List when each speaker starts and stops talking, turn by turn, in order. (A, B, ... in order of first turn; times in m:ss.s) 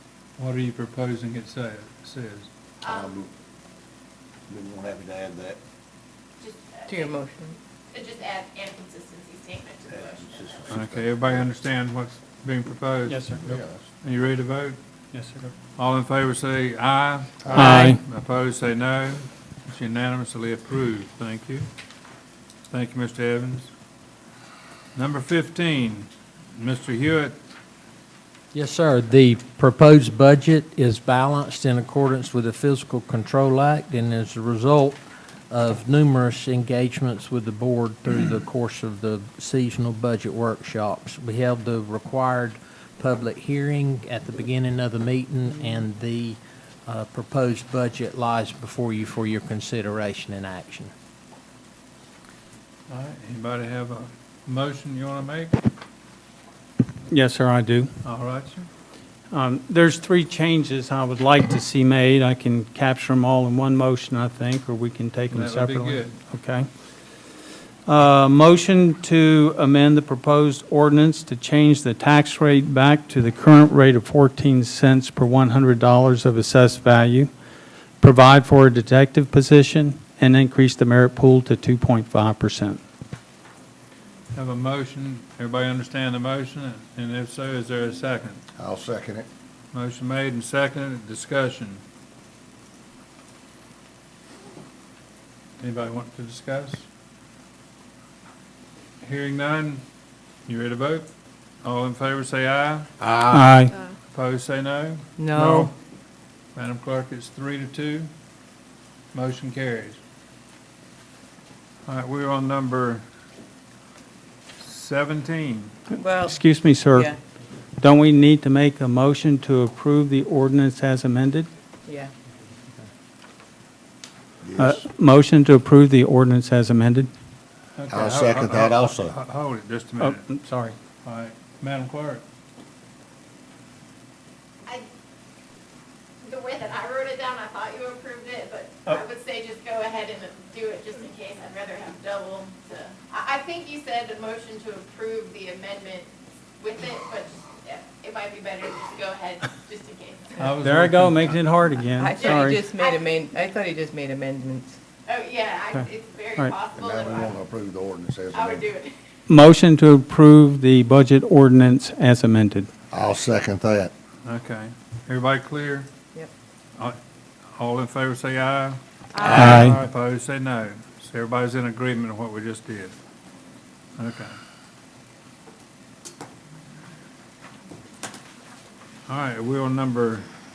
0:00.4-0:02.5 A
0:02.8-0:03.2 B
0:02.8-0:03.3 C
0:04.5-0:05.6 C
0:06.4-0:07.2 B
0:06.9-0:07.6 D
0:07.9-0:10.8 B
0:09.9-0:11.5 C
0:10.7-0:14.8 A
0:13.1-0:13.4 E
0:13.4-0:13.8 C
0:15.1-0:15.5 E
0:15.8-0:21.7 A
0:17.4-0:17.8 C
0:17.5-0:18.0 E
0:22.7-0:23.7 A
0:24.9-0:27.4 A
0:28.5-0:50.9 F
0:52.9-0:55.6 A
0:57.1-0:57.9 E
0:58.0-0:58.7 A
0:59.3-1:06.7 E
1:05.3-1:06.2 A
1:07.8-1:17.3 E
1:18.0-1:22.8 E
1:24.3-1:28.4 A
1:28.6-1:29.3 C
1:29.7-1:31.8 A
1:35.6-1:36.8 A
1:39.0-1:39.8 A
1:40.4-1:41.1 A
1:41.6-1:42.9 A
1:43.0-1:43.4 C
1:43.3-1:43.7 E
1:44.1-1:45.7 A
1:45.2-1:45.7 D
1:46.5-1:48.1 A
1:49.1-1:50.0 A
1:51.8-1:53.0 A
1:54.6-1:55.7 A
1:56.0-1:57.2 D
1:56.2-1:57.1 E
1:57.8-2:01.5 E
2:01.9-2:02.1 D
2:04.4-2:04.8 C
2:04.6-2:07.1 E
2:07.8-2:10.3 A
2:07.9-2:09.2 C
2:10.0-2:10.8 E
2:11.0-2:12.2 A
2:16.2-2:30.4 B
2:30.4-2:31.4 A
2:30.6-2:32.6 E
2:31.9-2:34.8 D
2:32.2-2:33.1 B
2:35.0-2:37.4 B
2:36.7-2:38.7 C
2:38.3-2:39.0 B
2:39.3-2:42.7 E
2:42.9-2:43.9 C
2:44.2-2:45.9 A
2:47.6-2:52.9 A
2:49.2-2:49.7 B
2:49.2-2:49.8 E
2:54.0-2:54.3 A
2:59.1-3:00.3 A